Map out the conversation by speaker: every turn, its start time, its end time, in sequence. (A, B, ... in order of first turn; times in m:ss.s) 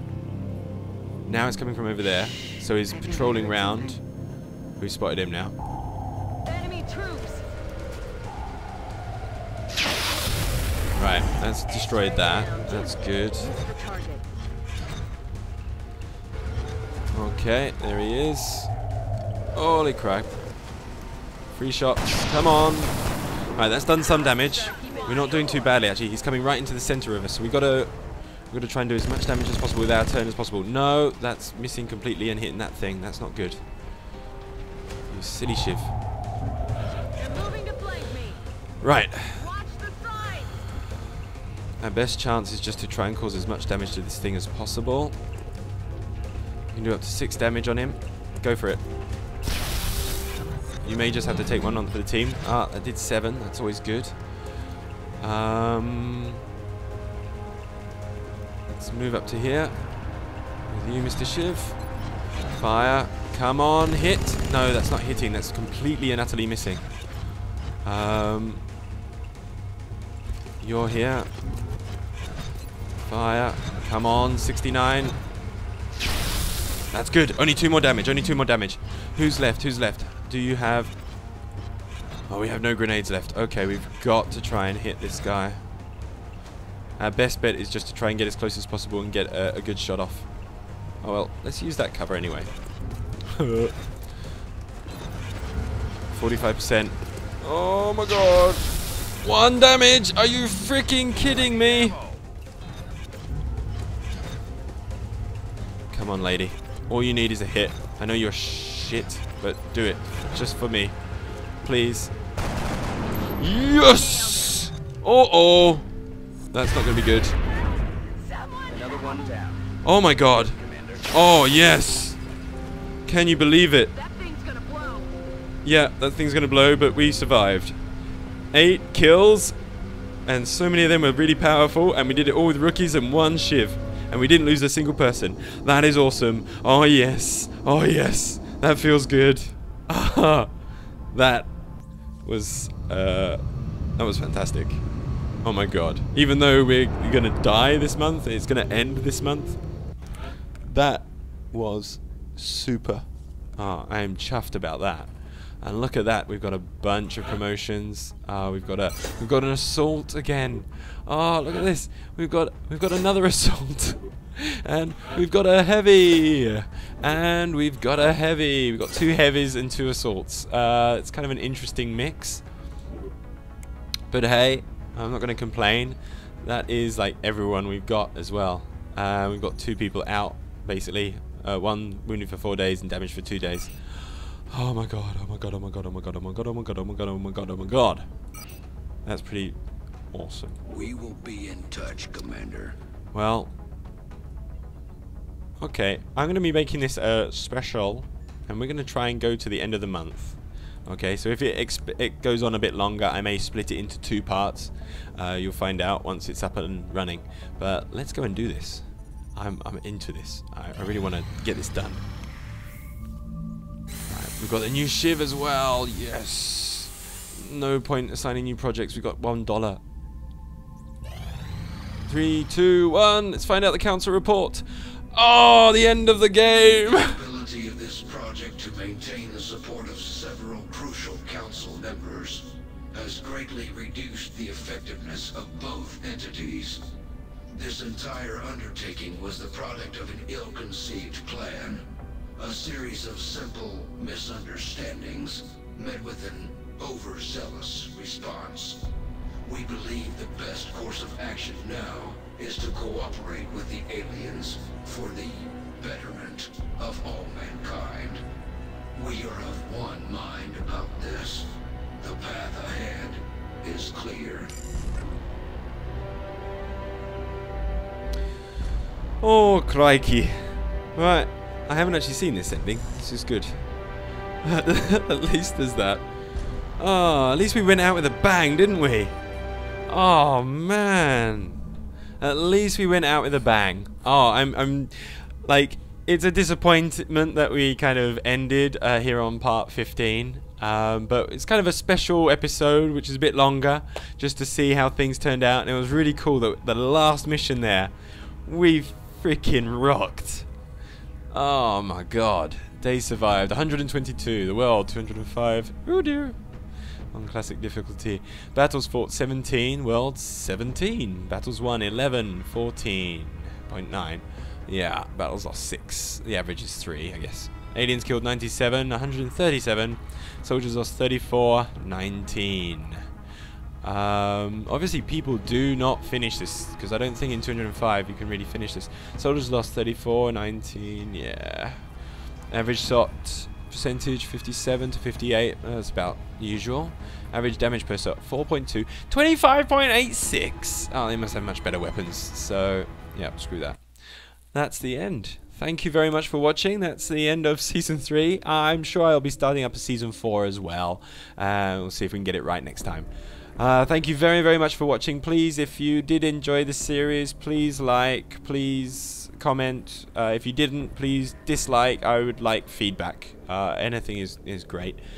0:01.2-0:04.1 A
0:02.9-0:04.0 B
0:04.8-0:05.6 A
0:06.4-0:07.4 B
0:10.9-0:13.5 A
0:11.5-0:14.3 B
0:17.1-0:18.7 A
0:19.5-0:20.3 A
0:21.5-0:23.0 A
0:23.5-0:27.9 A
0:23.9-0:25.9 B
0:28.5-0:33.6 A
0:35.1-0:35.9 A
0:37.2-0:38.4 B
0:38.8-0:39.5 A
0:39.3-0:40.6 B
0:41.8-0:45.2 A
0:46.7-0:48.8 A
0:50.8-0:54.2 A
0:55.2-0:56.4 A
0:58.7-0:59.9 A
1:00.6-1:01.8 A
1:02.6-1:06.9 A
1:07.8-1:08.6 A
1:10.6-1:11.3 A
1:13.0-1:15.2 A
1:16.9-1:20.9 A
1:22.3-1:25.6 A
1:27.0-1:30.3 A
1:31.0-1:32.5 A
1:33.3-1:33.8 A
1:36.1-1:42.0 A
1:41.4-1:42.2 C
1:45.9-1:51.0 A
1:51.6-1:52.1 A
1:53.4-1:55.9 A
1:53.8-1:54.7 B
1:56.5-1:57.4 A
1:57.0-1:59.3 B
1:58.7-1:59.7 C
1:59.8-2:00.6 A
2:00.3-2:01.1 C
2:01.1-2:02.2 A
2:03.0-2:03.9 A
2:03.9-2:05.2 B
2:05.6-2:07.8 A
2:08.5-2:09.5 A
2:10.2-2:20.5 A
2:21.1-2:21.6 A
2:22.2-2:23.4 A
2:24.0-2:24.8 A
2:25.4-2:29.6 A
2:30.6-2:52.4 A
2:54.1-3:08.1 A
3:09.0-3:09.6 A
3:10.1-3:10.6 A
3:10.7-3:12.7 D
3:13.1-3:13.5 A
3:15.6-3:32.0 A
3:34.1-3:39.8 A
3:42.0-3:47.2 A
3:47.0-3:56.9 D
3:57.5-4:01.8 D
4:02.4-4:08.9 D
4:09.4-4:18.2 D
4:18.9-4:24.5 D
4:29.2-4:33.6 A
4:34.4-4:36.0 A
4:36.8-4:39.2 A
4:39.9-4:41.6 A
4:42.2-4:57.9 A
4:58.4-5:00.5 A
5:01.3-5:06.4 A
5:07.1-5:23.0 A
5:23.8-5:31.8 A
5:32.5-5:43.8 A
5:44.5-6:05.0 A